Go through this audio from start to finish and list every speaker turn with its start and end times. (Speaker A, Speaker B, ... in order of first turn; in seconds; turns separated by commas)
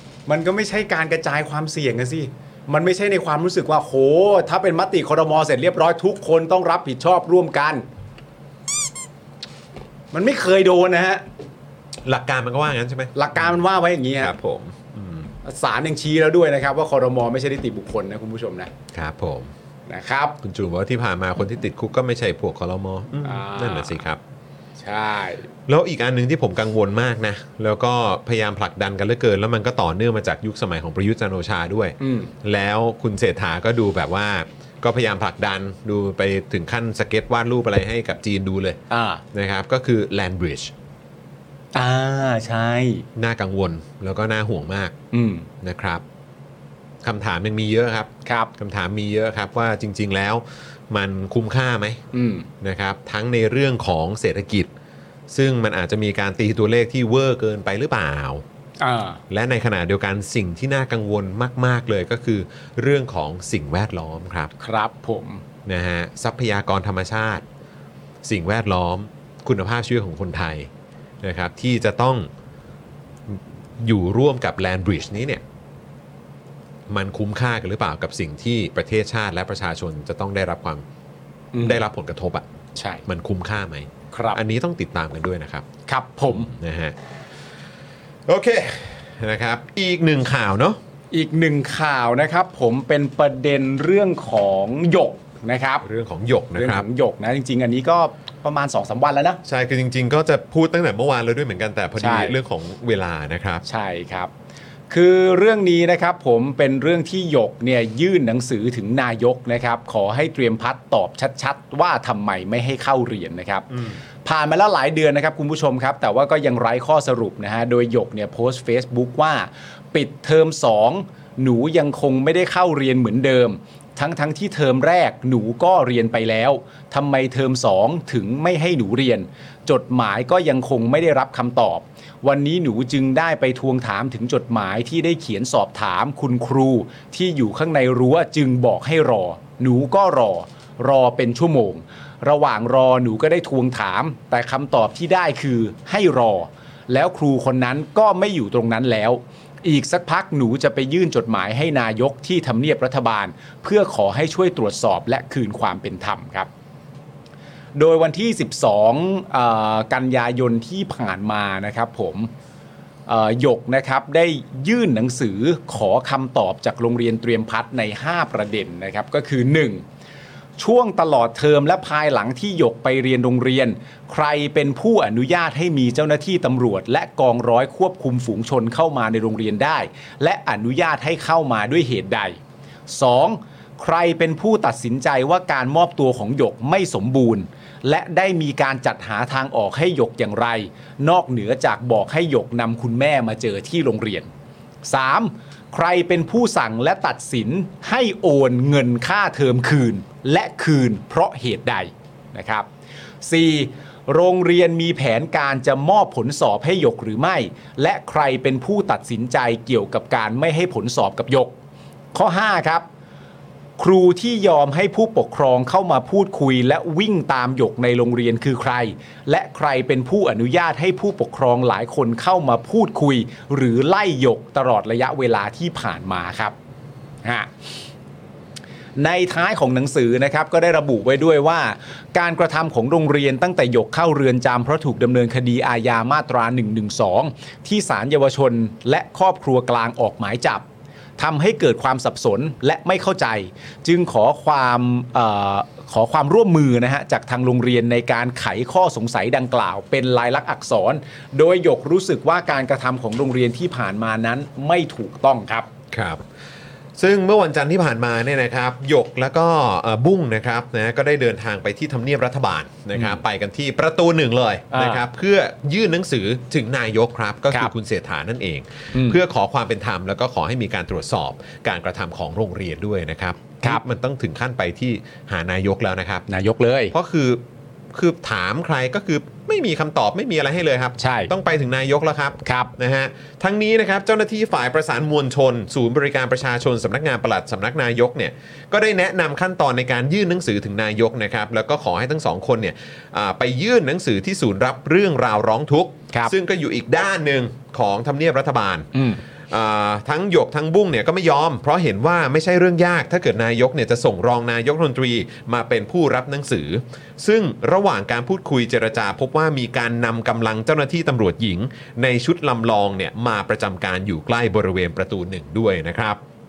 Speaker A: 0.3-7.9, Speaker A: 10.1-11.2, Speaker B: 12.1-13.5, Speaker A: 13.2-14.3, Speaker B: 14.2-15.3, Speaker A: 15.4-18.7, Speaker B: 18.9-19.5, Speaker A: 19.9-20.4, Speaker B: 20.4-24.2, Speaker A: 23.2-24.0, Speaker A: 24.8-25.5, Speaker B: 25.7-38.8, Speaker A: 32.0-32.3, Speaker A: 38.9-39.2, Speaker B: 39.3-40.7, Speaker A: 41.7-43.1, Speaker B: 43.2-44.9, Speaker A: 45.1-45.5, Speaker B: 45.6-46.0, Speaker B: 47.0-52.0, Speaker A: 48.2-48.5, Speaker A: 52.1-52.5, Speaker B: 52.6-54.7, Speaker B: 55.3-58.4, Speaker A: 58.8-59.2, Speaker B: 59.3-64.5, Speaker A: 64.6-65.4, Speaker B: 65.7-67.4, Speaker B: 68.2-70.7, Speaker B: 71.2-72.3, Speaker B: 73.3-75.4, Speaker B: 76.9-80.8, Speaker A: 81.5-81.8, Speaker B: 81.6-82.5, Speaker A: 82.8-83.0, Speaker B: 83.1-85.7, Speaker A: 84.1-84.4, Speaker A: 85.9-86.5, Speaker B: 86.4-87.0, Speaker B: 88.3-90.8, Speaker A: 91.1-95.8, Speaker B: 95.8-96.9, Speaker A: 96.5-99.4, Speaker B: 99.5-103.6, Speaker A: 102.0-102.3, Speaker A: 103.7-104.3, Speaker A: 104.9-113.7, Speaker B: 113.7-114.0, Speaker A: 114.2-156.5, Speaker A: 157.8-162.3, Speaker A: 163.1-169.8, Speaker A: 170.6-182.4, Speaker A: 182.9-194.3, Speaker A: 194.8-202.7, Speaker A: 203.2-211.6, Speaker A: 212.1-212.8, Speaker A: 213.8-226.6, Speaker A: 227.2-227.5, Speaker A: 229.0-240.7, Speaker A: 241.2-255.7, Speaker B: 255.9-256.2, Speaker B: 257.0-276.3, Speaker A: 264.7-265.0, Speaker A: 268.9-269.2, Speaker A: 276.3-276.9, Speaker B: 276.9-277.4, Speaker B: 277.9-298.9, Speaker A: 281.0-281.3, Speaker A: 282.4-282.7, Speaker A: 298.9-299.2, Speaker B: 299.5-316.2